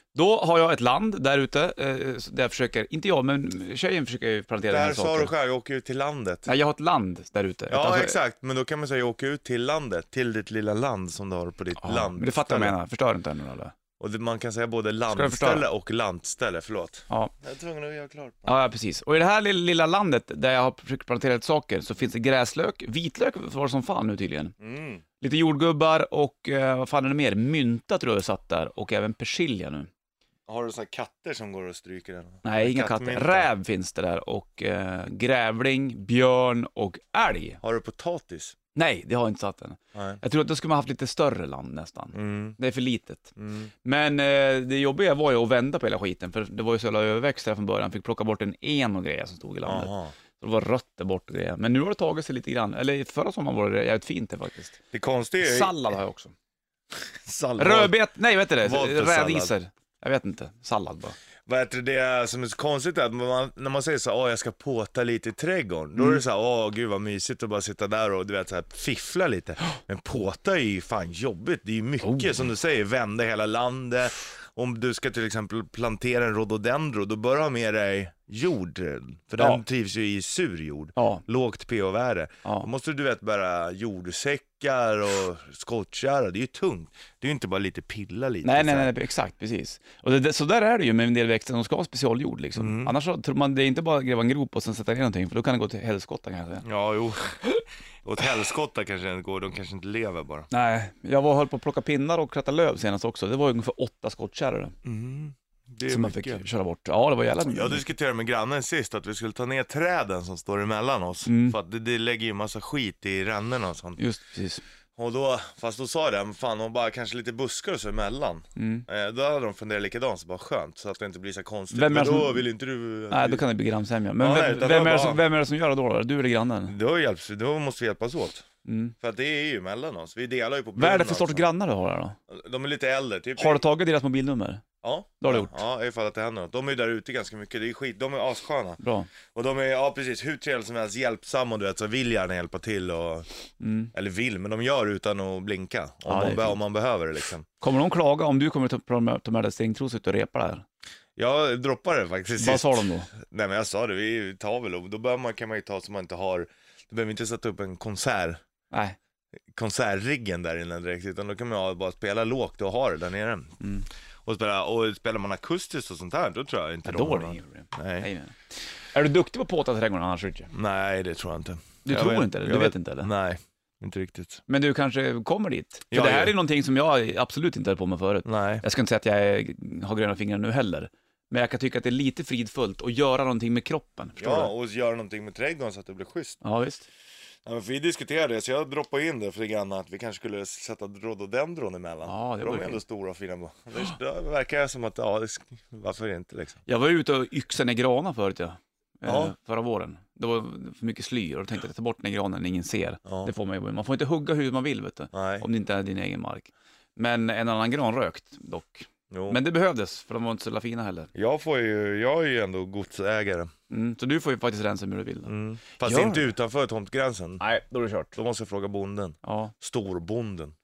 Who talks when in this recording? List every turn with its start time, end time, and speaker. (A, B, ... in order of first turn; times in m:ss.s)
0:00.2-0:05.3 A
0:04.7-0:06.5 B
0:06.5-0:08.2 A
0:07.7-0:12.8 B
0:11.8-0:13.7 A
0:14.0-0:18.6 B
0:15.1-0:15.7 A
0:18.5-0:24.5 A
0:24.6-0:25.0 B
0:25.2-0:29.9 A
0:30.5-0:33.5 B
0:32.4-0:37.6 A
0:37.6-0:38.6 B
0:38.7-0:43.3 A
0:39.9-0:40.2 B
0:42.1-0:42.6 B
0:43.4-0:43.7 B
0:43.8-0:54.8 A
0:49.6-0:50.2 B
0:54.9-0:55.8 B
0:55.4-0:56.3 A
0:57.2-0:58.0 B
0:57.6-1:01.2 A
0:58.6-0:59.6 B
1:01.5-1:28.9 B
1:06.0-1:06.2 A
1:12.0-1:12.4 A
1:21.0-1:21.2 A
1:28.4-1:36.7 A
1:32.6-1:32.9 B
1:36.6-1:37.4 B
1:38.0-1:40.5 B
1:40.5-1:44.8 A
1:44.8-1:46.4 B
1:45.9-1:47.8 A
1:47.4-1:54.0 B
1:51.3-1:51.6 A
1:54.0-1:54.6 A
1:55.0-2:03.5 B
1:58.6-1:58.8 A
2:01.7-2:02.5 A
2:03.1-2:06.7 A
2:04.2-2:05.2 B
2:06.7-2:08.4 B
2:08.6-2:08.9 A
2:09.0-2:11.5 B
2:10.8-2:12.2 A
2:12.3-2:13.6 B
2:13.4-2:14.6 A
2:14.8-2:18.8 B
2:15.2-2:15.6 A
2:18.8-2:19.1 A
2:19.3-2:23.3 B
2:23.6-2:23.9 A
2:23.9-2:27.4 B
2:26.1-2:26.6 A
2:27.6-2:30.6 A
2:31.2-2:38.4 B
2:32.4-2:33.1 A
2:38.7-2:39.0 A
2:39.5-2:43.6 B
2:43.6-2:43.9 A
2:44.2-2:48.1 B
2:46.8-2:48.4 A
2:48.9-2:50.5 A
2:50.5-2:54.4 B
2:51.8-2:53.1 A
2:54.5-3:04.5 A
2:55.9-2:56.4 B
2:58.2-2:58.6 B
3:04.2-3:06.4 B
3:06.4-3:06.9 A
3:07.4-3:16.6 B
3:12.0-3:12.8 A
3:16.7-3:31.1 A
3:19.1-3:19.3 B
3:23.1-3:23.3 B
3:25.1-3:25.5 B
3:29.1-3:29.4 B
3:31.2-3:33.5 B
3:33.7-3:36.3 A
3:35.3-3:37.4 B
3:37.4-3:38.2 A
3:38.2-3:40.5 B
3:39.2-3:39.5 A